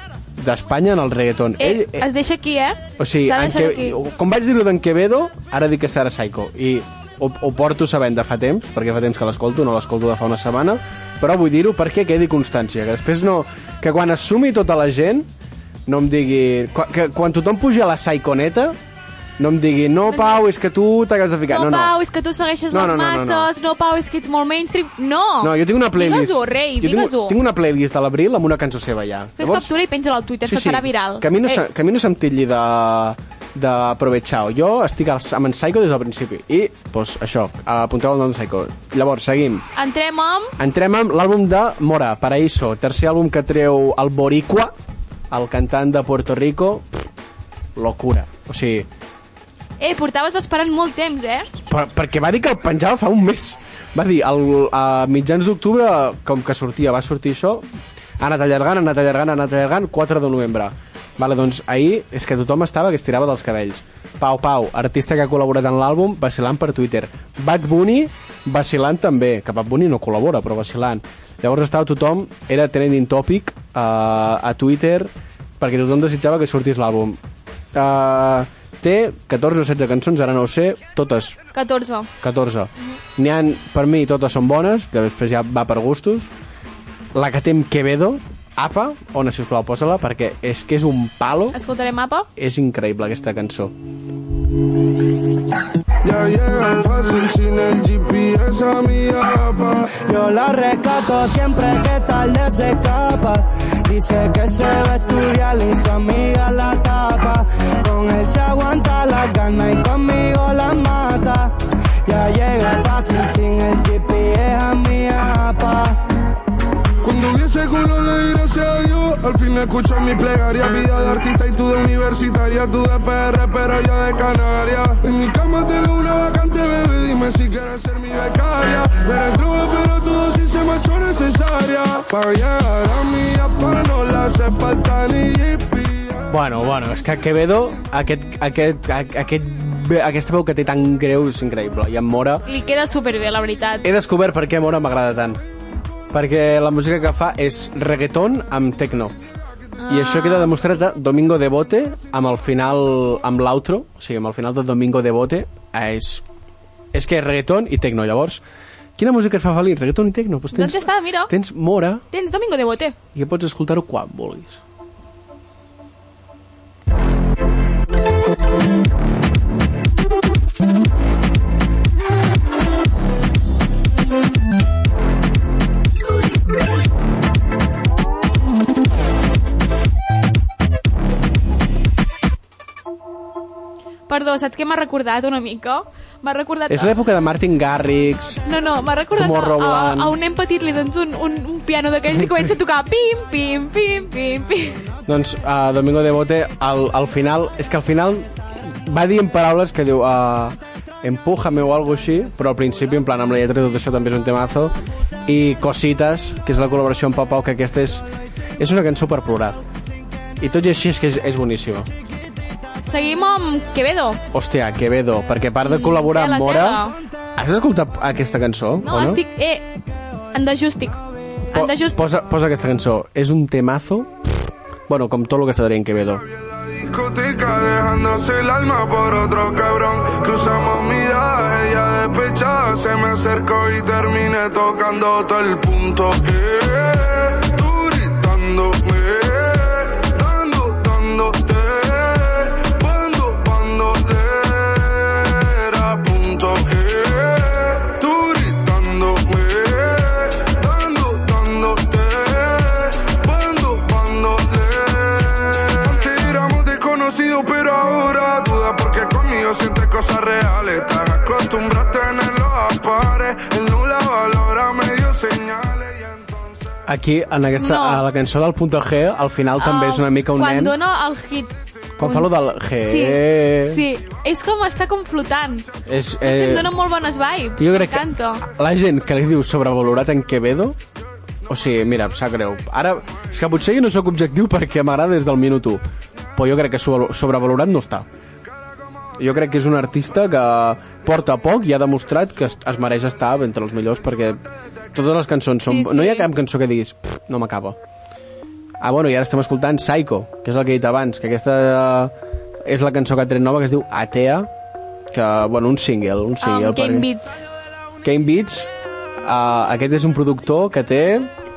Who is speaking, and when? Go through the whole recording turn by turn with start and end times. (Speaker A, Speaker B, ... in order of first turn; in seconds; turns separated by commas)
Speaker A: 0.4-2.0, Speaker B: 1.6-4.0, Speaker A: 3.0-15.3, Speaker A: 15.9-18.8, Speaker A: 19.4-21.9, Speaker B: 20.1-20.4, Speaker B: 21.5-27.4, Speaker A: 22.7-23.5, Speaker A: 25.4-29.7, Speaker B: 29.4-31.6, Speaker A: 30.4-39.6, Speaker B: 39.8-40.5, Speaker A: 40.6-44.7, Speaker A: 45.3-46.9, Speaker A: 47.8-48.9, Speaker B: 49.8-51.5, Speaker A: 51.7-57.7, Speaker A: 58.2-77.2, Speaker A: 77.7-81.4, Speaker B: 81.5-82.1, Speaker A: 82.2-86.3, Speaker A: 87.1-91.6, Speaker B: 91.5-92.3, Speaker A: 92.4-93.7, Speaker C: 96.0-99.9, Speaker D: 100.0-111.5, Speaker D: 112.1-116.0, Speaker C: 117.0-136.3, Speaker A: 136.3-142.4, Speaker B: 142.5-143.9, Speaker A: 143.8-145.4, Speaker A: 146.1-149.2, Speaker B: 149.8-150.6, Speaker A: 149.9-156.2, Speaker A: 156.9-158.4, Speaker A: 159.0-162.0, Speaker B: 160.5-161.3, Speaker B: 162.1-163.0, Speaker A: 163.2-164.6, Speaker B: 184.1-186.9, Speaker A: 186.7-188.4, Speaker B: 188.4-194.8, Speaker A: 189.1-190.2, Speaker A: 192.1-192.4, Speaker A: 195.1-208.1, Speaker A: 208.6-209.6, Speaker A: 210.4-211.9, Speaker B: 212.8-214.2, Speaker A: 214.3-216.8, Speaker B: 215.6-217.0, Speaker A: 217.4-219.2, Speaker B: 218.8-219.7, Speaker B: 220.3-221.0, Speaker B: 221.5-222.0, Speaker A: 221.5-224.1, Speaker A: 224.9-226.2, Speaker C: 226.4-266.4, Speaker A: 266.9-270.8, Speaker B: 267.6-268.1, Speaker B: 269.6-272.3, Speaker A: 272.0-273.9, Speaker B: 272.8-275.7, Speaker A: 275.9-276.7, Speaker B: 276.2-278.5, Speaker A: 277.6-280.8, Speaker A: 281.5-285.8, Speaker A: 286.4-288.1, Speaker A: 289.2-294.4, Speaker A: 294.9-297.8, Speaker B: 295.6-296.3, Speaker A: 298.8-302.1, Speaker A: 302.6-304.5, Speaker A: 305.1-307.1, Speaker B: 306.4-307.4, Speaker A: 308.0-308.7, Speaker A: 309.2-311.3